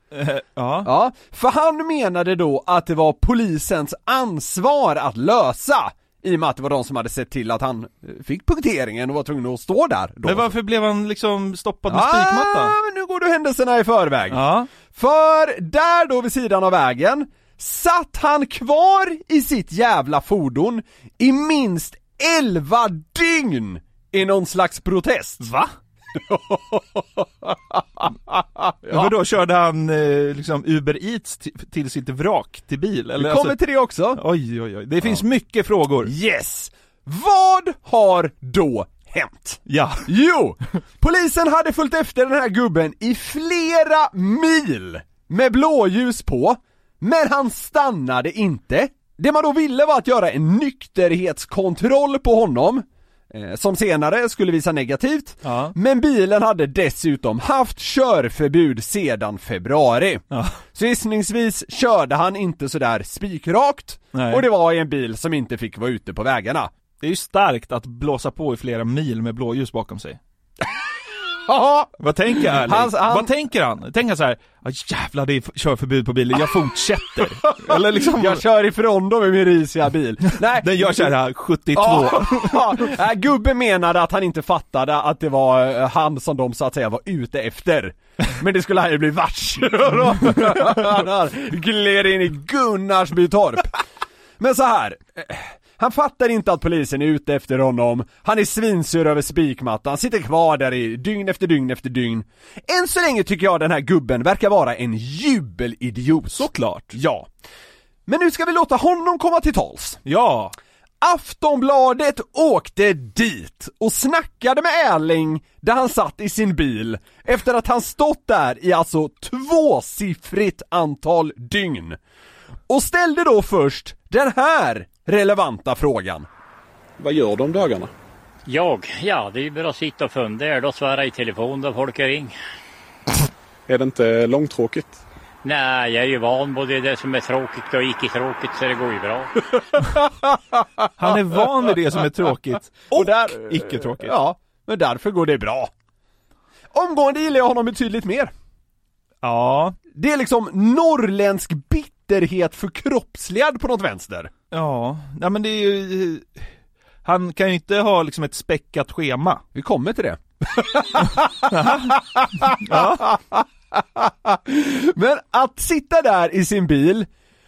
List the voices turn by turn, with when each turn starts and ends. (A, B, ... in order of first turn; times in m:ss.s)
0:00.1-0:00.9 A
0:00.8-0:10.5 B
0:10.2-0:12.7 A
0:11.9-0:25.5 B
0:14.3-0:14.7 A
0:25.4-0:25.7 A
0:26.1-0:29.1 B
0:28.9-0:33.6 A
0:33.1-0:34.2 B
0:34.1-0:36.1 A
0:36.0-1:06.7 B
0:39.7-0:40.0 A
0:55.4-0:55.7 A
1:00.3-1:00.6 A
1:04.1-1:04.4 A
1:07.0-1:10.2 A
1:11.5-1:13.3 B
1:12.0-1:18.4 A
1:17.5-1:21.1 B
1:20.6-1:22.8 A
1:21.7-1:33.8 B
1:34.4-1:47.3 B
1:46.3-1:46.9 A
1:48.1-1:50.0 B
1:50.0-1:50.5 A
1:51.0-2:02.0 B
2:02.7-2:06.3 B
2:07.0-2:07.9 C
2:08.5-2:12.4 D
2:13.7-2:15.0 C
2:15.4-2:19.3 D
2:19.5-2:21.2 B
2:21.0-2:24.1 A
2:22.9-2:25.7 B
2:26.7-2:28.3 B
2:29.2-2:29.8 A
2:29.9-2:34.3 B
2:34.5-2:36.4 A
2:37.0-2:39.4 A
2:39.5-2:47.1 B
2:41.5-2:43.1 A